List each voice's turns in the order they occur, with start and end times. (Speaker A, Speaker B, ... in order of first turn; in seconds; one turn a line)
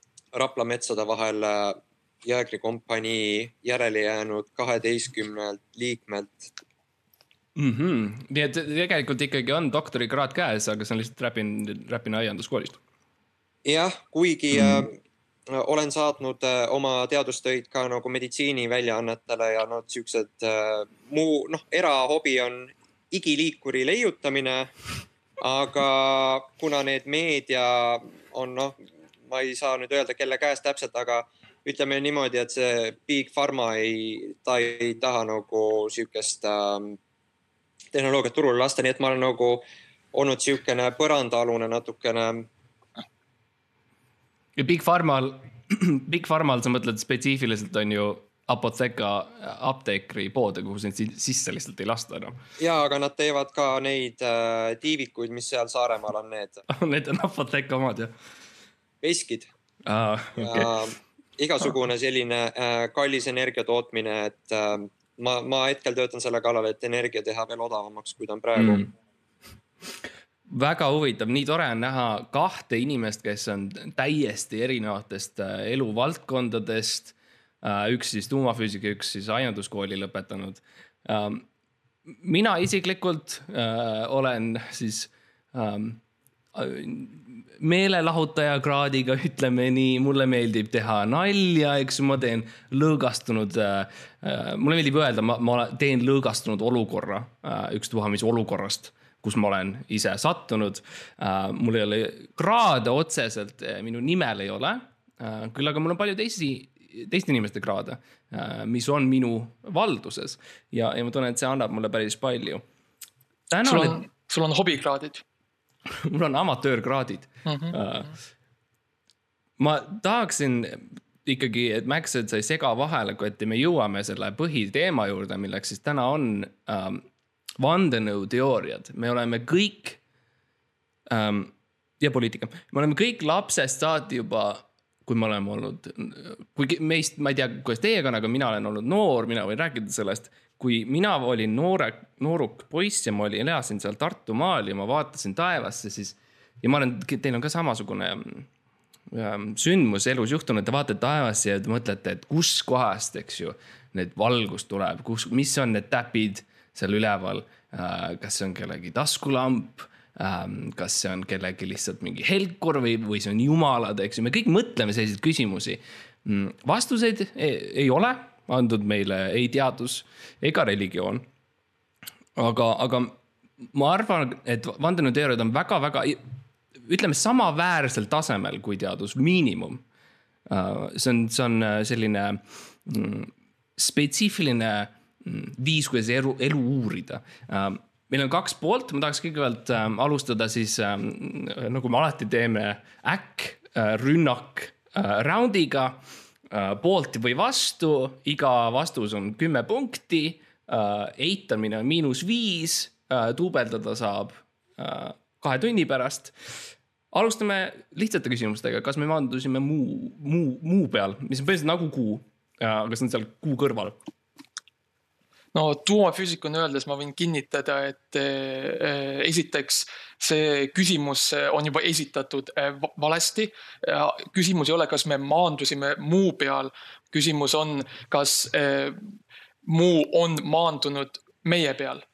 Speaker A: 0.3-6.5
Speaker B: 7.5-12.8
Speaker A: 13.6-15.0
Speaker B: 14.5-14.8
Speaker A: 15.5-24.7
Speaker A: 25.4-37.0
Speaker A: 37.9-42.5
Speaker B: 44.5-52.4
Speaker A: 52.6-56.6
Speaker B: 56.7-58.1
Speaker A: 59.0-59.5
Speaker B: 59.9-60.7
Speaker A: 60.4-68.9
Speaker B: 68.5-68.8
Speaker B: 70.5-81.5
Speaker B: 82.1-86.0
Speaker B: 86.5-112.6
Speaker B: 113.5-114.0
Speaker C: 113.6-115.2
Speaker B: 115.9-118.1
Speaker C: 117.5-117.8
Speaker B: 119.6-127.0
Speaker B: 127.6-130.0
Speaker B: 131.1-148.5
Speaker B: 149.1-171.3
Speaker B: 172.3-176.2
Speaker B: 176.8-179.8
Speaker B: 180.5-213.9
Speaker C: 215.5-229.0
Speaker C: 229.6-232.0